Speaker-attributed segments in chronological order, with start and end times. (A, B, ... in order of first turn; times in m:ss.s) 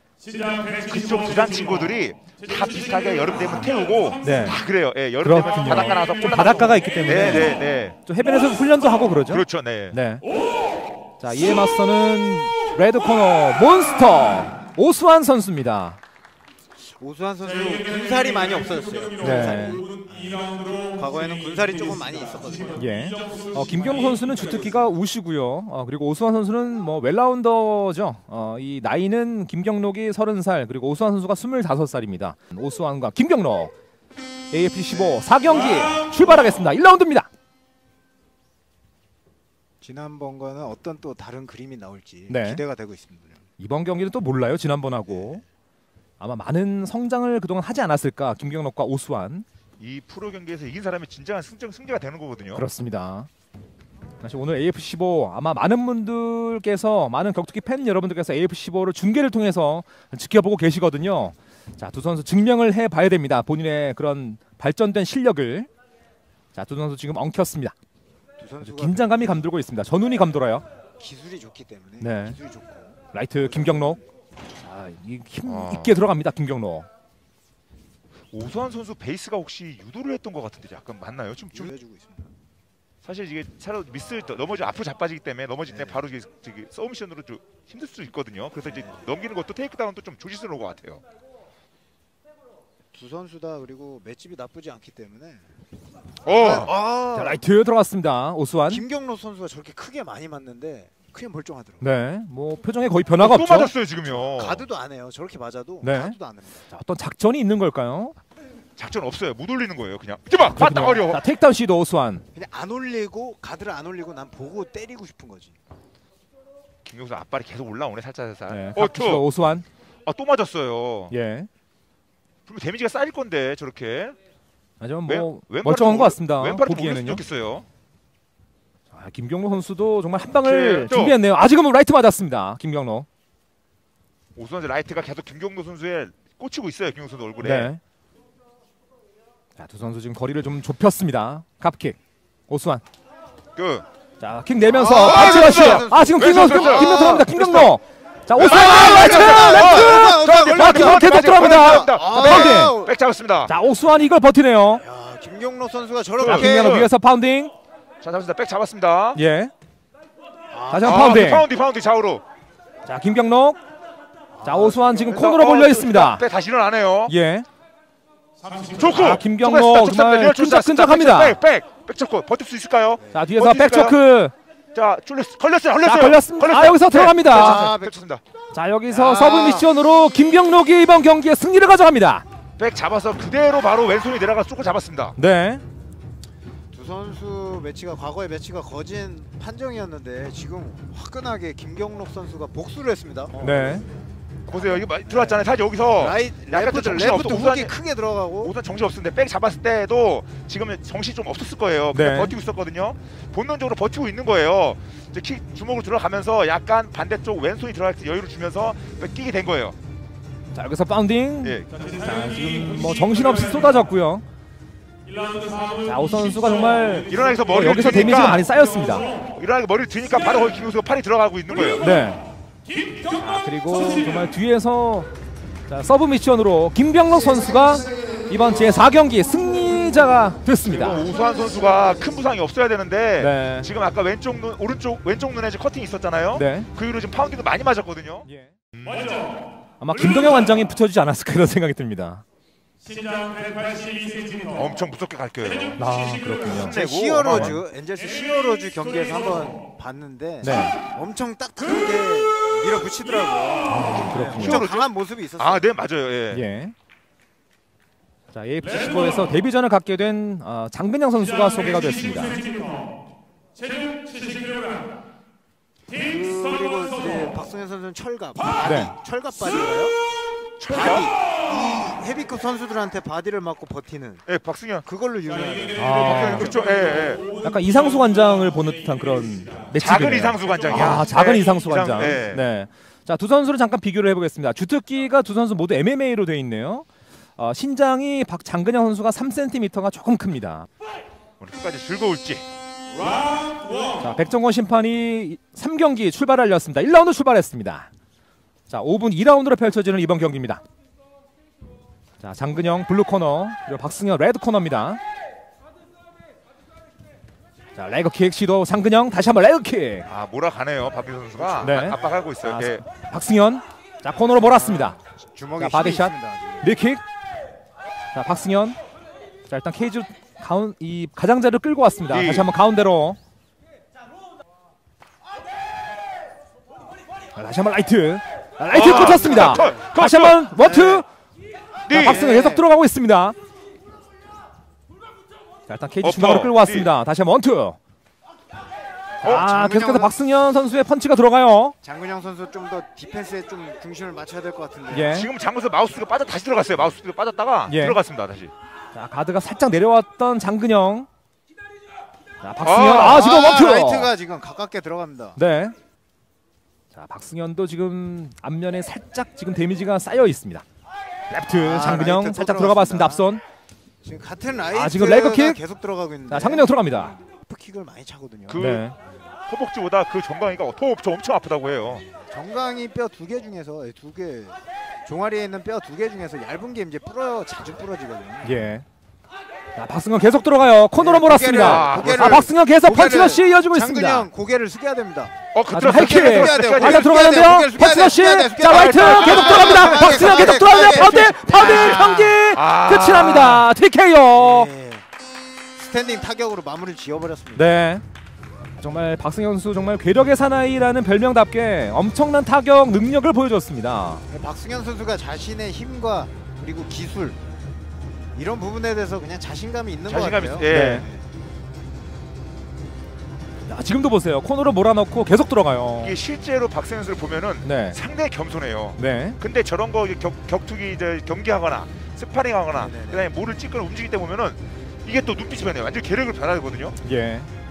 0:00.4-0:00.8 A
0:00.8-0:08.0 B
0:04.2-0:04.6 C
0:05.2-0:10.2 C
0:09.3-0:10.0 B
0:11.2-0:16.0 C
0:16.8-0:22.9 D
0:19.2-0:19.8 C
0:22.8-0:33.7 C
0:34.5-0:37.3 C
0:39.8-0:43.4 D
0:42.3-0:42.6 C
0:43.6-0:45.4 C
0:45.1-0:45.4 D
0:46.2-0:49.5 C
0:49.8-0:52.7 B
0:52.5-0:53.3 C
0:54.2-1:05.7 C
1:06.5-1:07.8 C
1:08.4-1:09.4 D
1:08.6-1:10.6 C
1:11.0-1:14.0 D
1:12.0-1:12.4 C
1:13.1-1:14.0 C
1:14.6-1:16.9 C
1:15.4-1:16.0 B
1:18.3-1:21.7 B
1:21.5-1:22.3 D
1:23.0-1:31.0 B
1:25.7-1:26.0 D
1:28.7-1:29.0 D
1:32.9-1:35.4 D
1:36.2-1:36.7 B
1:36.3-1:37.5 D
1:37.2-1:38.8 C
1:38.7-1:41.8 D
1:41.8-1:43.7 C
1:43.2-1:44.7 B
1:44.1-1:46.6 D
1:45.8-1:46.2 C
1:46.7-1:48.2 C
1:48.8-1:51.2 B
1:50.6-1:52.2 C
1:52.3-1:55.6 D
1:56.9-1:59.2 B
1:58.5-1:59.7 C
2:00.1-2:01.1 B
2:01.1-2:01.5 C
2:02.5-2:04.2 B
2:04.8-2:07.2 C
2:05.1-2:07.7 B
2:08.9-2:13.1 C
2:10.4-2:11.2 B
2:14.4-2:17.7 B
2:17.4-2:17.8 C
2:19.6-2:22.0 C
2:22.5-2:22.8 C
2:23.6-2:23.9 B
2:24.2-2:32.8 C
2:24.7-2:27.3 D
2:25.0-2:27.7 B
2:28.4-2:33.5 B
2:28.4-2:33.0 D
2:33.5-2:34.8 C
2:34.8-2:36.9 D
2:36.2-2:36.9 B
2:36.2-2:37.5 C
2:38.0-2:39.2 B
2:39.2-2:39.5 C
2:40.5-2:41.1 D
2:40.7-2:41.5 C
2:40.8-2:42.2 B
2:42.8-2:43.6 C
2:44.3-2:45.1 D
2:44.4-2:46.2 C
2:45.1-2:47.1 B
2:47.1-2:47.5 C
2:48.7-2:54.0 B
2:48.9-2:51.4 C
2:53.0-2:53.3 D
2:53.1-2:54.3 C
2:54.7-2:58.2 B
2:55.8-2:57.8 C
2:57.2-2:58.0 D
2:58.5-3:02.2 C
2:58.9-2:59.7 D
3:02.6-3:05.2 B
3:05.2-3:05.6 C
3:06.7-3:13.8 D
3:13.4-3:13.9 C
3:14.5-3:17.8 B
3:16.0-3:18.6 D
3:18.4-3:29.8 B
3:21.9-3:22.3 C
3:30.5-3:34.2 C
3:31.4-3:31.7 B
3:35.8-3:39.1 C
3:37.1-3:38.4 B
3:39.4-3:41.9 B
3:41.7-3:42.2 C
3:43.1-3:45.1 C
3:45.7-3:51.1 C
3:50.7-3:59.3 B
3:53.2-3:53.7 C
3:56.3-3:56.7 C
3:58.3-3:58.5 C
3:59.8-4:02.2 C
4:02.9-4:04.5 A
4:04.5-4:05.8 B
4:05.8-4:06.8 C
4:06.4-4:07.6 B
4:06.7-4:15.8 D
4:07.3-4:07.6 C
4:10.4-4:10.8 C
4:13.7-4:14.6 C
4:14.3-4:14.8 B
4:15.4-4:16.4 B
4:16.3-4:16.7 C
4:18.3-4:22.4 C
4:25.9-4:30.0 D
4:28.6-4:28.9 C
4:30.6-4:31.1 B
4:30.6-4:34.2 D
4:34.3-4:34.9 B
4:34.8-4:36.6 D
4:35.8-4:36.6 C
4:35.9-4:37.3 B
4:37.4-4:46.9 C
4:39.8-4:42.4 B
4:47.4-4:50.7 C
4:51.4-4:52.5 B
4:54.0-4:57.9 C
4:58.7-5:00.6 C
5:02.2-5:05.0 C
5:07.8-5:10.1 C
5:10.1-5:12.8 B
5:11.4-5:11.9 D
5:11.6-5:15.0 C
5:14.4-5:16.7 D
5:15.6-5:17.0 C
5:18.1-5:18.8 C
5:19.5-5:23.2 C
5:22.1-5:22.5 B
5:27.4-5:31.1 C
5:28.7-5:30.4 B
5:28.8-5:29.8 D
5:30.5-5:31.1 D
5:31.9-5:32.3 B
5:31.9-5:33.4 C
5:31.9-5:32.7 D
5:35.7-5:37.8 C
5:36.0-5:36.9 B
5:39.2-5:40.2 D
5:39.2-5:41.8 C
5:41.8-5:45.3 D
5:44.9-5:45.3 C
5:45.1-5:48.5 B
5:47.7-5:48.0 C
5:48.9-5:51.1 C
5:52.4-5:54.1 C
5:52.6-5:53.1 B
5:52.8-5:55.4 D
5:55.4-5:55.7 C
5:56.9-6:00.6 C
6:01.3-6:03.4 C
6:01.5-6:03.3 D
6:04.0-6:08.6 D
6:04.7-6:05.6 C
6:06.3-6:07.2 C
6:08.5-6:08.8 B
6:08.6-6:09.0 C
6:09.5-6:12.0 B
6:12.0-6:18.7 D
6:18.4-6:18.8 C
6:19.8-6:24.3 C
6:21.0-6:32.4 D
6:21.6-6:22.4 B
6:25.5-6:27.1 B
6:25.7-6:34.7 C
6:28.7-6:30.6 B
6:31.6-6:33.7 B
6:34.3-6:35.0 D
6:35.8-6:37.7 D
6:37.6-6:38.0 C
6:38.8-6:44.2 C
6:44.3-6:47.4 D
6:48.4-6:51.3 D
6:50.1-6:51.0 B
6:50.7-6:51.1 C
6:53.7-6:56.2 C
6:56.0-7:07.0 B
6:57.6-6:58.0 C
6:59.0-6:59.4 C
7:02.8-7:03.3 D
7:07.0-7:07.5 C